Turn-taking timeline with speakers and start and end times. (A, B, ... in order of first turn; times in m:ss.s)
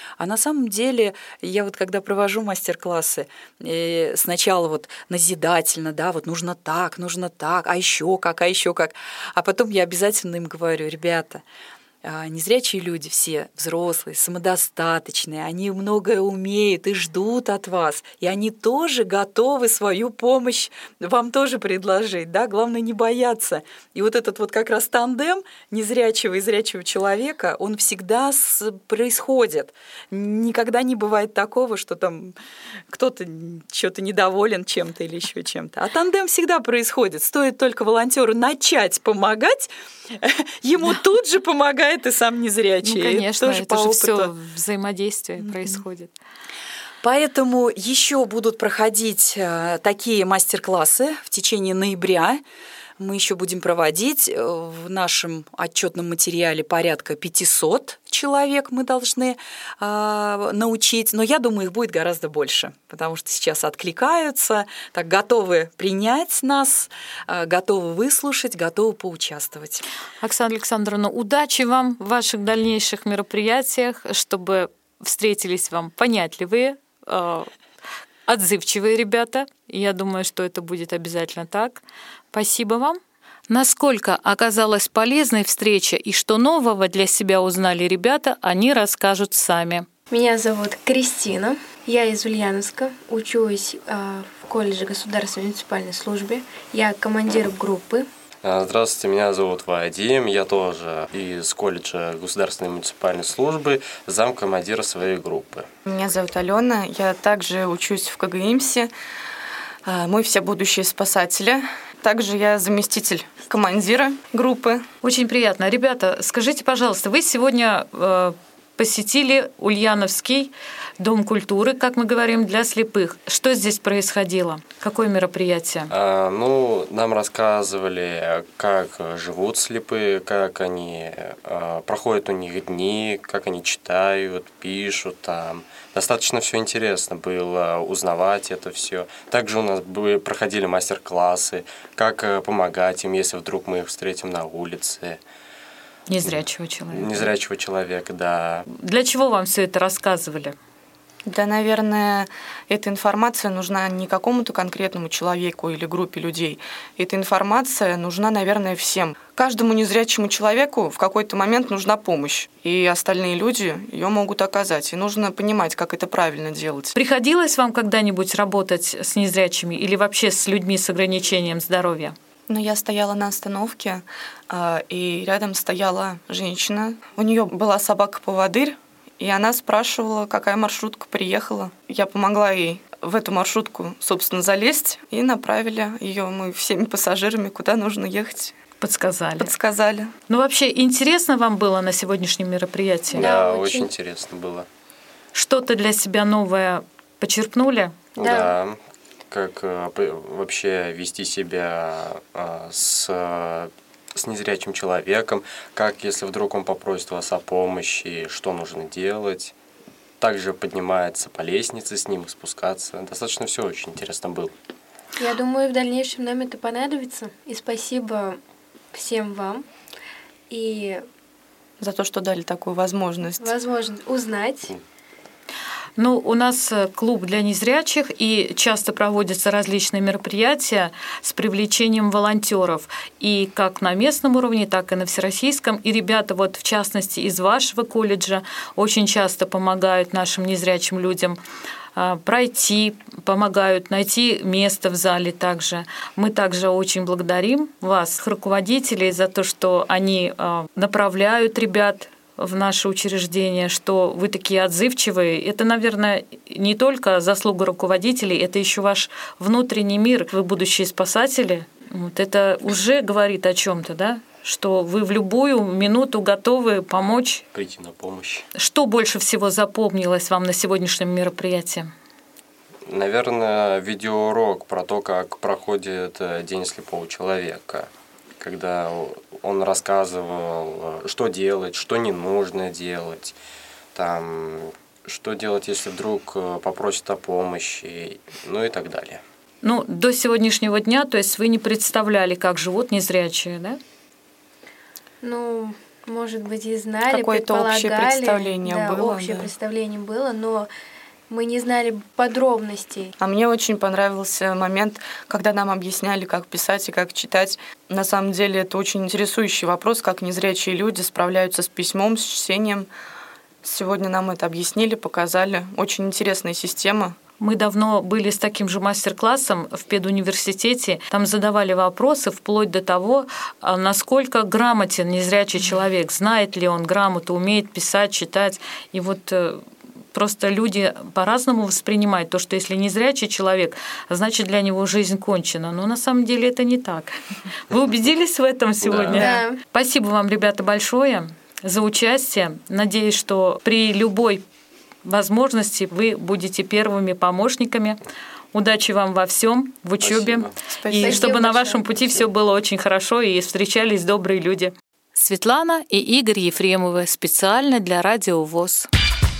0:00.2-0:11.4 A
0:12.0-0:32.3 A
0:32.9-0:44.3 A
0:42.8-0:46.1 B
0:45.4-0:45.8 A
0:47.0-0:52.4 A
0:53.0-1:09.8 A
1:10.2-1:17.5 B
1:18.3-1:23.0 B
1:23.5-1:29.9 B
1:30.1-1:38.1 C
1:38.4-1:45.6 D
1:45.8-1:48.9 E
1:49.8-1:54.8 E
1:55.0-2:05.9 B
2:05.9-2:25.2 D
2:26.1-2:27.3 B
2:26.2-2:28.6 D
2:28.7-2:30.5 B
2:31.2-2:46.9 E
2:46.9-2:52.1 B
2:52.5-3:08.5 E
3:08.8-3:09.5 B
3:09.4-3:10.1 E
3:10.3-3:13.3 B
3:13.1-3:13.9 C
3:13.1-3:14.7 D
3:15.3-3:18.0 B
3:18.2-3:18.8 D
3:18.2-3:18.5 C
3:19.3-3:29.5 D
3:30.2-3:34.5 D
3:35.2-3:38.4 C
3:38.9-3:39.6 C
3:40.5-3:41.0 C
3:41.8-3:43.5 E
3:43.4-3:44.7 C
3:46.0-4:01.4 B
4:02.0-4:27.4 B
4:27.5-4:28.4 D
4:28.5-4:31.9 B
4:32.9-4:43.3 D
4:43.9-4:49.2 D
4:49.6-4:53.8 B
4:55.2-5:00.7 C
4:57.0-4:59.5 E
5:01.3-5:03.1 C
5:03.2-5:12.9 E
5:13.6-5:17.2 E
5:17.4-5:29.6 B
5:30.1-5:37.1 B
5:37.7-5:44.4 B
5:38.8-5:39.3 D
5:39.1-5:39.6 C
5:45.0-5:48.0 B
5:48.5-5:58.9 B
5:50.0-5:50.5 D
5:50.7-5:51.2 E
5:50.9-5:51.9 C